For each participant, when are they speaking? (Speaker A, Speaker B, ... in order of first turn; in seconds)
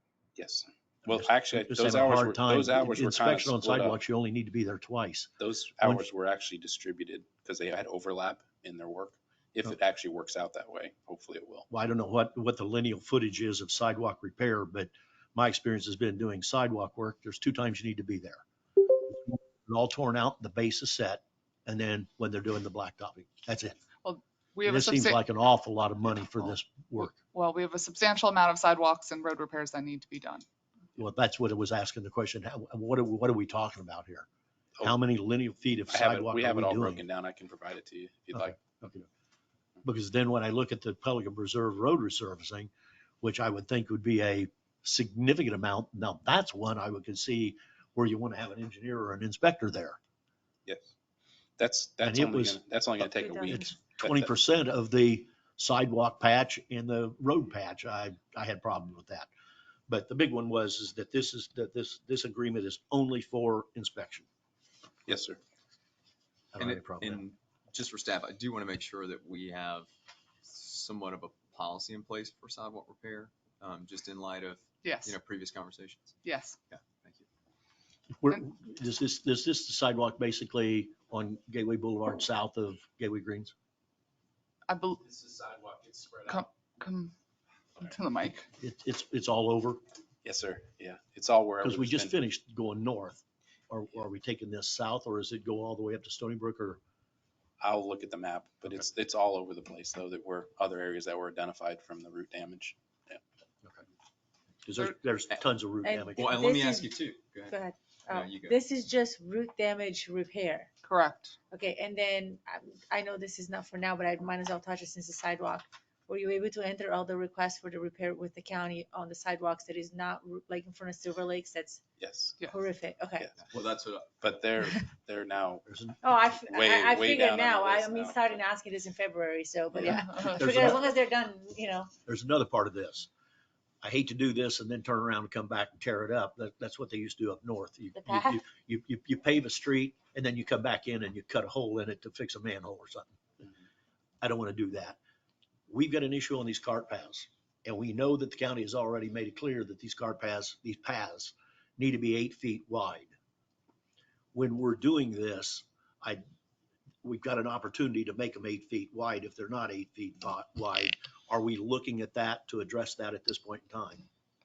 Speaker A: 0.4-4.0, 5.4-11.7, 35.9-38.6, 50.7-50.9, 51.6-54.3, 65.1-65.4, 85.0-86.5, 90.2-92.2, 97.6-103.2, 122.0-122.4, 124.2-125.7, 126.5-128.4
Speaker B: 1.1-6.1, 11.7-23.8, 24.6-27.2, 31.0-34.3, 34.8-37.0, 38.3-39.1, 39.8-42.7, 43.2-50.0, 52.0-59.3, 59.9-64.3, 66.5-67.2, 78.2-83.5, 88.6-89.8, 91.6-96.8, 104.7-106.3, 125.7-126.0, 130.4-130.9, 132.1-133.1, 133.8-143.2, 144.2-145.0, 145.7-153.1, 154.3-156.2, 157.0-164.1
Speaker C: 24.0-25.2, 27.0-30.4, 74.8-75.2, 76.2-76.6, 84.7-85.0, 86.3-87.1, 87.8-88.5, 110.8-111.4
Speaker D: 66.6-69.9, 70.4-76.2, 76.7-77.2, 106.2-108.6, 123.4-124.2
Speaker E: 105.8-106.9, 107.5-110.7, 111.5-121.8, 122.5-123.3, 126.0-131.9, 137.9-138.4